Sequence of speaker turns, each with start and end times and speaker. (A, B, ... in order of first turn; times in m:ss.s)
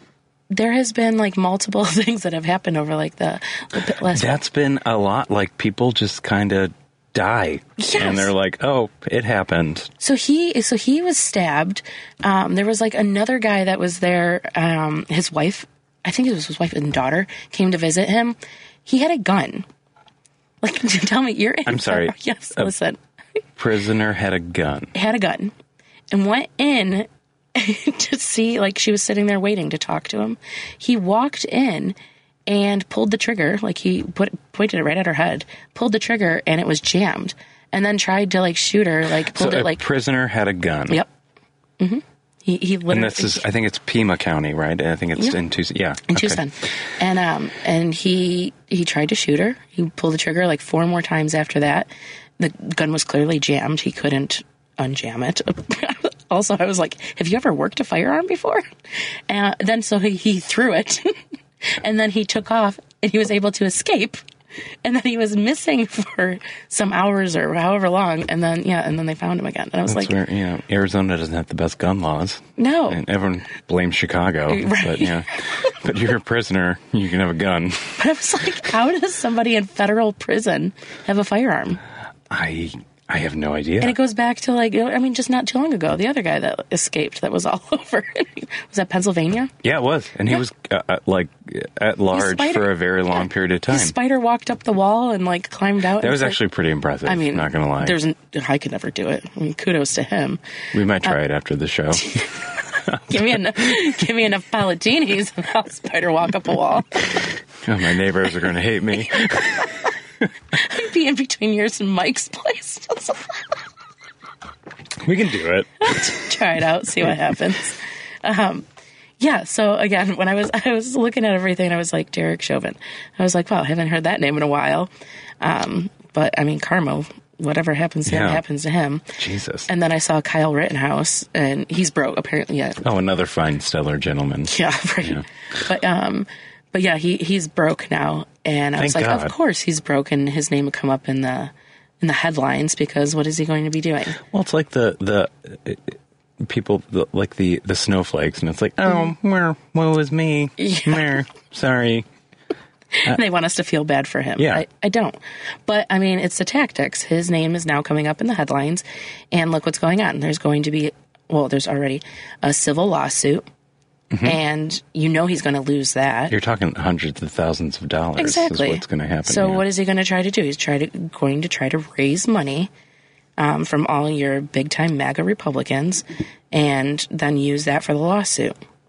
0:00.5-0:04.4 A
0:04.1-0:09.9 B
0:07.8-0:08.3 A
0:10.0-0:19.7 A
0:20.6-0:23.0 A
0:21.7-0:22.7 B
0:23.6-0:24.9 B
0:24.9-0:25.5 A
0:26.1-0:32.0 A
0:32.5-0:39.8 A
0:39.3-0:41.0 B
0:41.8-0:43.5 A
0:42.9-0:46.4 B
0:46.1-0:58.7 A
0:59.3-1:04.2 A
1:04.8-1:10.2 A
1:09.9-1:18.0 B
1:12.6-1:13.0 A
1:14.5-1:15.7 A
1:18.0-1:21.8 A
1:22.3-1:24.0 B
1:23.8-1:29.5 A
1:29.6-1:34.0 B
1:32.1-1:32.7 A
1:33.7-1:36.4 A
1:36.0-1:38.0 B
1:37.1-1:40.4 A
1:40.7-1:42.2 B
1:42.0-1:42.4 A
1:43.0-1:47.0 A
1:47.6-1:49.8 B
1:50.5-1:53.4 A
1:55.0-1:55.9 B
1:55.8-1:58.7 A
1:59.2-2:09.1 A
2:08.1-2:08.4 B
2:09.2-2:09.7 B
2:09.7-2:12.8 A
2:12.8-2:15.2 B
2:14.5-2:24.2 A
2:18.8-2:19.3 B
2:24.2-2:32.1 B
2:30.6-2:31.1 A
2:32.9-2:43.5 A
2:34.4-2:34.6 B
2:44.1-2:44.4 B
2:44.2-2:46.4 A
2:46.3-2:49.6 B
2:48.2-2:52.7 A
2:53.4-2:58.6 A